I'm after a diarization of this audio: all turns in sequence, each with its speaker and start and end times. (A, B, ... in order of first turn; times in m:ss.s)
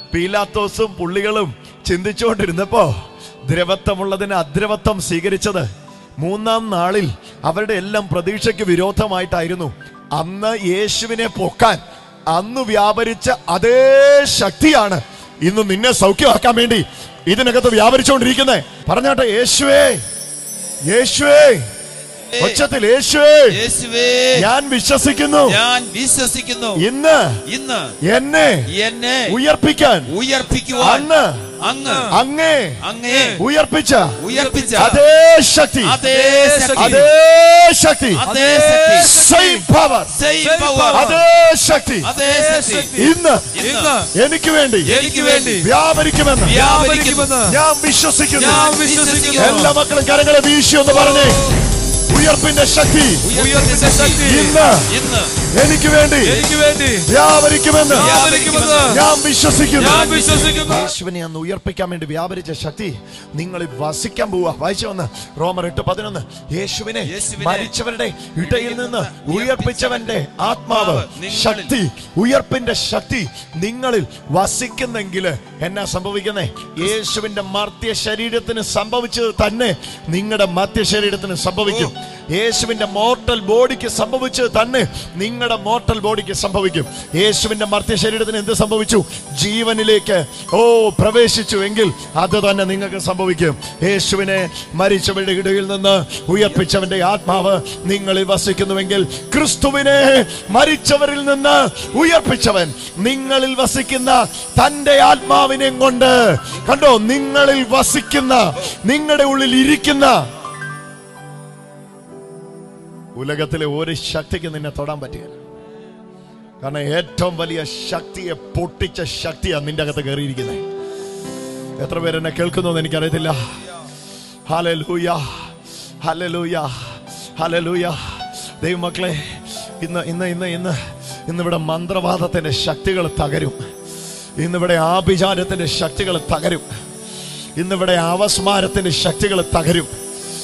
0:00.1-0:02.9 A
0:03.5-0:05.7 A
0:06.2-0:20.0 A
0:20.9-0:21.7 A
0:22.3-0:22.6 B
0:22.4-0:23.6 A
0:23.5-0:24.5 B
0:24.4-0:25.6 A
0:25.4-0:26.8 B
0:26.8-0:27.4 A
0:27.5-0:28.0 B
0:28.0-0:28.7 A
0:28.7-0:29.4 B
0:29.3-0:30.1 A
0:30.1-0:31.1 B
0:30.8-0:31.5 A
0:31.6-0:32.1 B
0:31.8-0:32.2 C
0:32.1-0:32.8 A
0:32.8-0:33.4 B
0:33.0-0:33.4 C
0:33.4-0:34.2 A
0:34.2-0:35.0 B
0:34.3-0:35.0 C
0:34.8-0:36.0 A
0:35.8-0:37.1 B
0:36.1-0:37.1 C
0:36.8-0:38.2 A
0:38.1-0:39.1 B
0:38.3-0:39.7 C
0:38.9-0:40.2 A
0:40.1-0:41.1 B
0:40.4-0:41.2 C
0:40.9-0:42.1 A
0:42.0-0:43.0 B
0:42.2-0:44.1 C
0:43.0-0:43.5 A
0:43.6-0:44.0 B
0:44.1-0:44.9 A
0:44.8-0:45.6 B
0:44.9-0:45.7 C
0:45.6-0:46.6 A
0:46.4-0:47.4 B
0:46.5-0:47.6 C
0:47.4-0:48.6 A
0:48.4-0:49.7 B
0:48.4-0:49.8 C
0:49.4-0:51.4 A
0:51.0-0:51.4 C
0:52.1-0:53.3 A
0:53.2-0:55.4 B
0:53.3-0:54.6 C
0:54.2-0:54.9 A
0:55.5-0:56.4 A
0:56.2-0:57.1 C
0:57.1-0:58.2 A
0:57.9-0:59.0 B
0:57.9-0:59.0 C
0:58.9-1:50.3 A
0:59.8-1:00.9 C
0:59.8-1:00.8 B
1:07.1-1:07.7 B
1:08.4-1:11.8 B
1:21.7-1:21.9 B
1:53.2-1:55.4 A
1:56.6-2:00.7 A
2:01.8-2:03.4 A
2:04.5-2:13.6 A
2:14.4-2:16.7 A
2:17.6-2:19.9 A